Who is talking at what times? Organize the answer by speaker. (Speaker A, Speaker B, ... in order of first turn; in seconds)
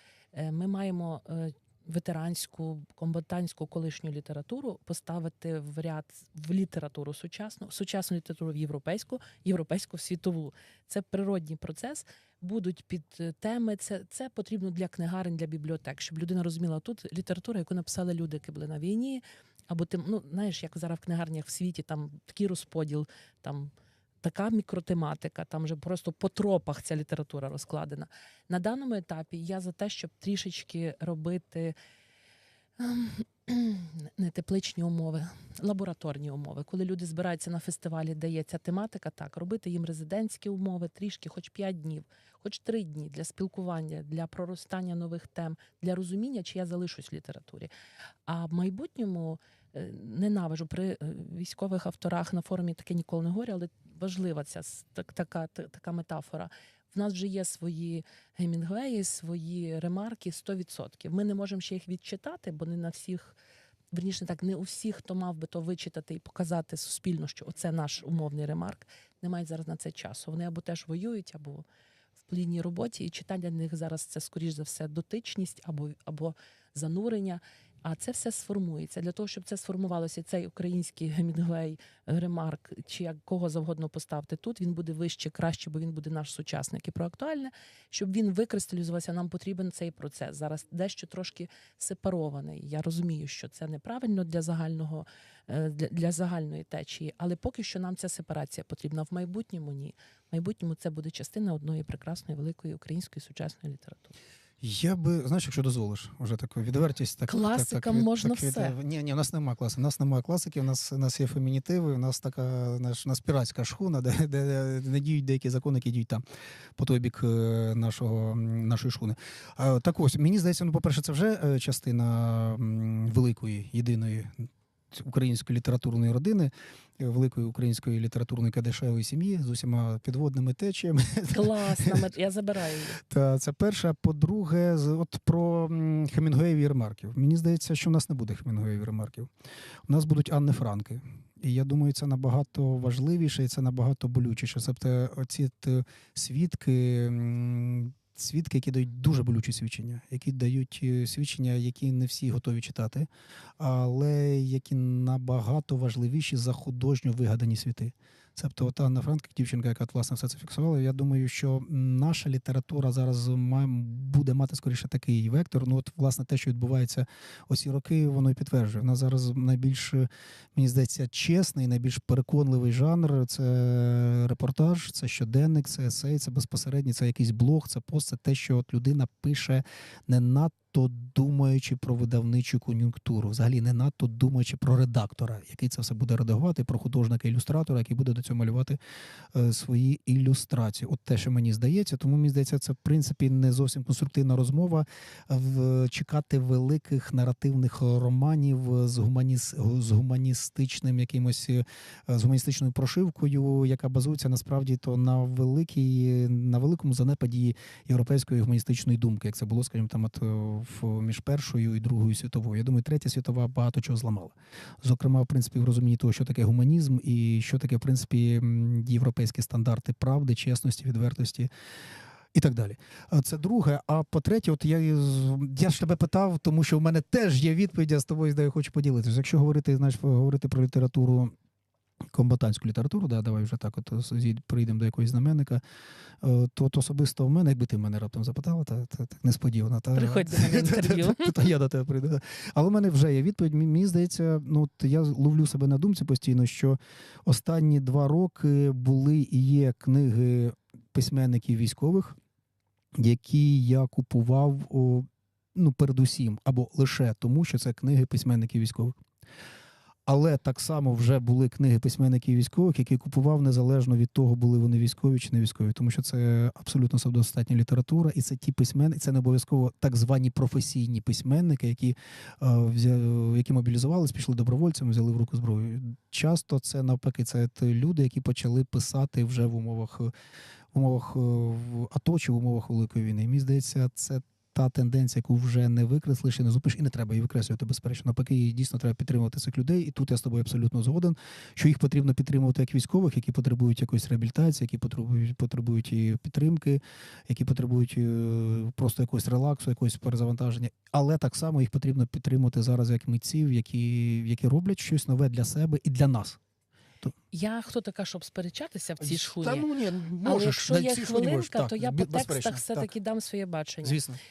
Speaker A: 0.3-23.7, 24.2-31.7, 32.8-47.7, 48.3-63.4, 63.9-71.7, 72.3-104.1, 107.3-108.8, 131.3-133.0, 239.9-241.5, 307.3-309.7, 310.2-314.0
Speaker B: 104.6-116.2, 116.8-132.0, 133.0-139.3, 139.9-153.1, 153.6-188.8, 189.3-221.5, 222.3-231.3, 232.1-235.6, 236.2-252.2, 253.0-259.0, 260.1-280.1, 280.7-306.4, 309.0-312.9, 313.8-314.2